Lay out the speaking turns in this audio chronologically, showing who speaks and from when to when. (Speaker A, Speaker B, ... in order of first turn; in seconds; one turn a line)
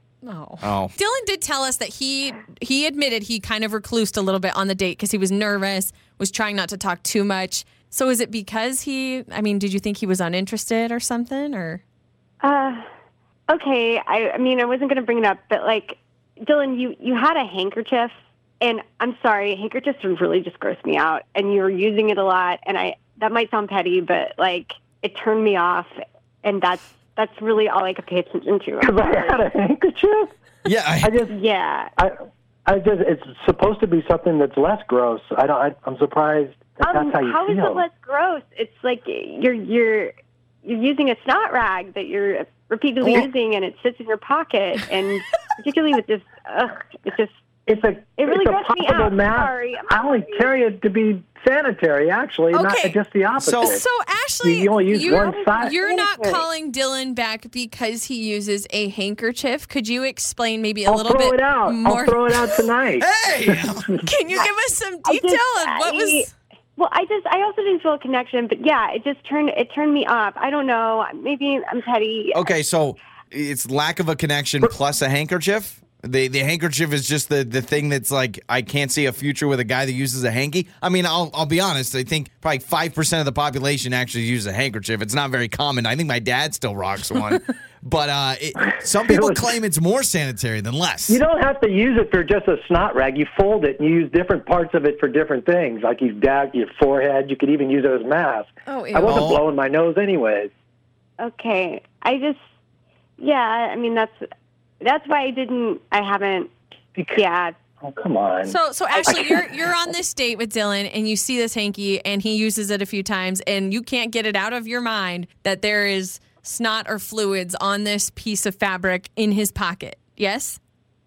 Speaker A: 0.2-11.8
Speaker B: 0.6-0.9
Speaker C: 12.4-12.8
Speaker C: 13.5-25.9
Speaker C: 26.4-29.3
Speaker D: 28.8-30.3
Speaker B: 30.6-31.2
Speaker D: 31.0-31.3
Speaker C: 31.3-31.9
Speaker D: 32.0-37.8
Speaker C: 36.8-40.1
Speaker C: 40.6-47.3
Speaker D: 47.7-53.8
Speaker C: 48.2-50.5
Speaker A: 52.5-53.0
Speaker B: 53.4-53.8
Speaker A: 53.6-62.6
Speaker D: 54.4-55.7
Speaker C: 55.0-56.4
Speaker D: 60.9-64.0
Speaker B: 63.0-63.9
Speaker A: 64.0-66.3
Speaker C: 65.0-72.5
Speaker B: 72.3-91.2
Speaker D: 89.1-89.4
Speaker D: 91.1-100.5
Speaker A: 98.7-99.2
Speaker B: 99.0-99.4
Speaker C: 101.2-102.4
Speaker C: 103.2-104.2
Speaker C: 104.8-106.5
Speaker D: 106.9-107.2
Speaker C: 107.1-107.6
Speaker D: 107.8-109.5
Speaker A: 108.4-120.6